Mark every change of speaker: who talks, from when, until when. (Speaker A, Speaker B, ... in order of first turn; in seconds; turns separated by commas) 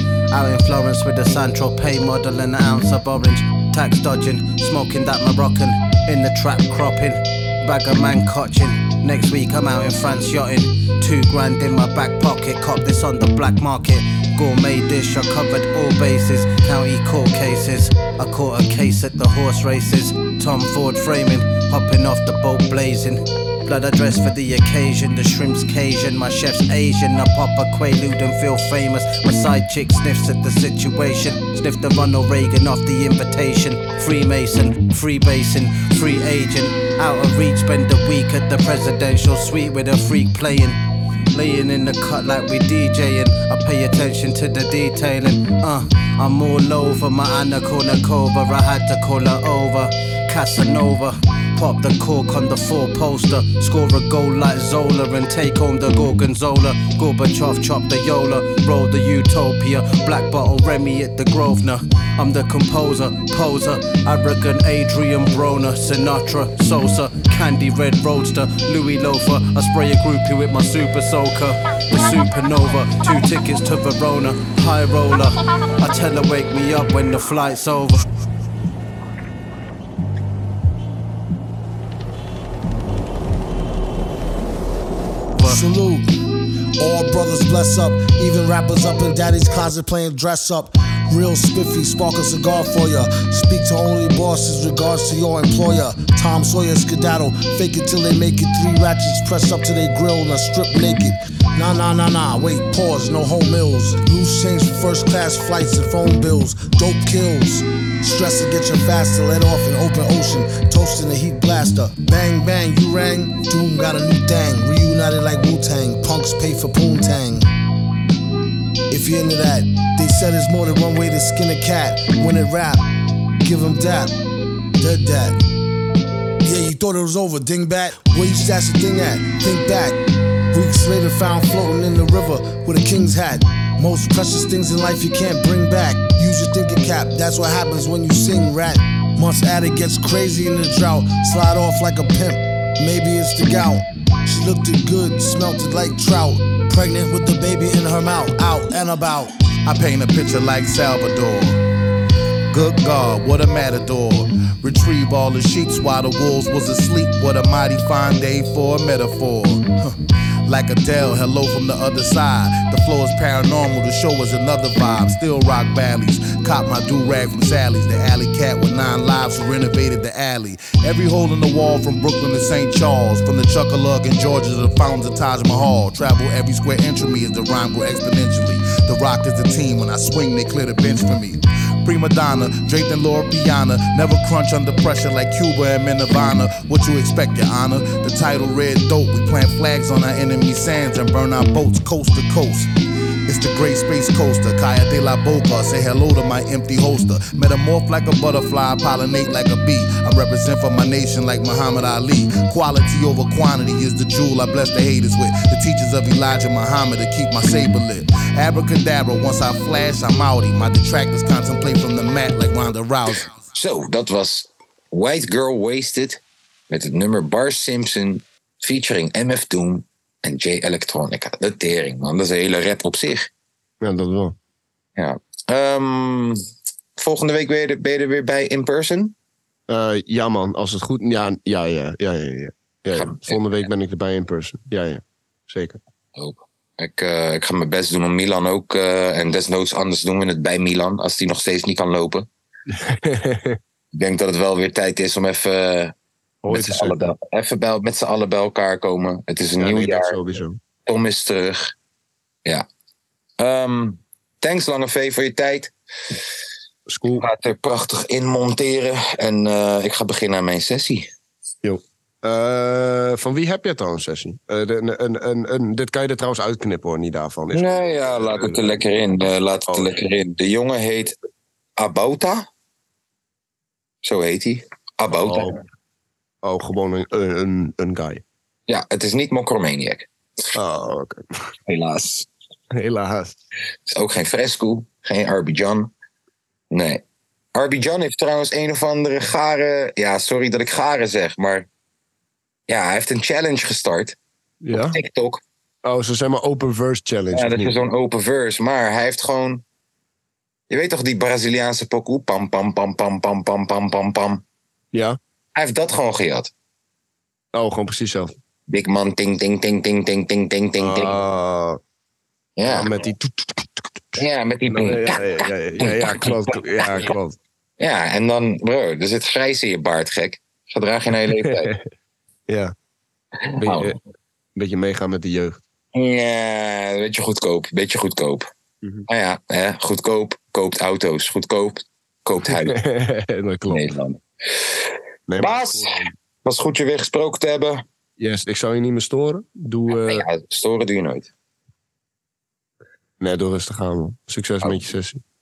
Speaker A: 0.3-40.8, Speaker A: 41.3-78.0, Speaker A: 85.3-85.6, Speaker B: 85.4-86.1, Speaker B: 86.8-117.5, Speaker B: 118.9-122.8, Speaker B: 123.4-124.1, Speaker B: 124.8-125.4, Speaker B: 126.4-130.0, Speaker B: 130.5-149.3, Speaker C: 149.6-151.6, Speaker C: 152.5-192.7, Speaker C: 193.2-213.3, Speaker D: 213.5-223.3, Speaker E: 223.8-224.3, Speaker D: 225.0-226.4, Speaker D: 227.0-229.1, Speaker E: 229.7-235.8, Speaker D: 232.9-233.6, Speaker D: 236.2-242.3, Speaker E: 242.7-243.6, Speaker D: 243.9-245.9, Speaker E: 246.4-247.1, Speaker D: 246.5-250.2, Speaker E: 249.6-250.6, Speaker D: 250.8-251.7, Speaker D: 253.4-255.7, Speaker E: 256.9-257.2, Speaker D: 257.1-261.1, Speaker E: 261.6-268.8, Speaker D: 267.5-271.1, Speaker E: 269.7-270.0, Speaker D: 271.8-272.4, Speaker D: 274.0-275.6, Speaker E: 275.2-275.6, Speaker E: 276.4-278.2, Speaker D: 278.7-280.1, Speaker E: 280.5-281.5, Speaker D: 281.7-282.3, Speaker E: 282.7-283.4, Speaker D: 283.9-285.9, Speaker D: 286.7-287.0, Speaker D: 287.5-291.7, Speaker D: 292.7-294.2, Speaker E: 294.6-294.9, Speaker D: 294.7-295.4, Speaker E: 295.8-297.7, Speaker D: 297.3-299.6, Speaker D: 300.7-304.4, Speaker E: 304.9-305.2, Speaker D: 305.5-306.5, Speaker E: 307.5-308.3, Speaker D: 308.7-311.2, Speaker E: 310.8-311.8, Speaker D: 312.6-312.9, Speaker E: 312.6-317.4, Speaker D: 314.2-317.1, Speaker D: 317.8-321.7, Speaker E: 321.3-321.8, Speaker E: 322.5-322.7, Speaker D: 323.5-324.0, Speaker E: 323.6-324.0, Speaker E: 324.6-325.6, Speaker D: 325.9-328.5, Speaker D: 329.1-332.8, Speaker E: 332.4-333.9, Speaker D: 333.7-337.8, Speaker E: 335.3-336.1, Speaker E: 338.2-340.2, Speaker D: 339.9-341.3, Speaker E: 343.2-345.2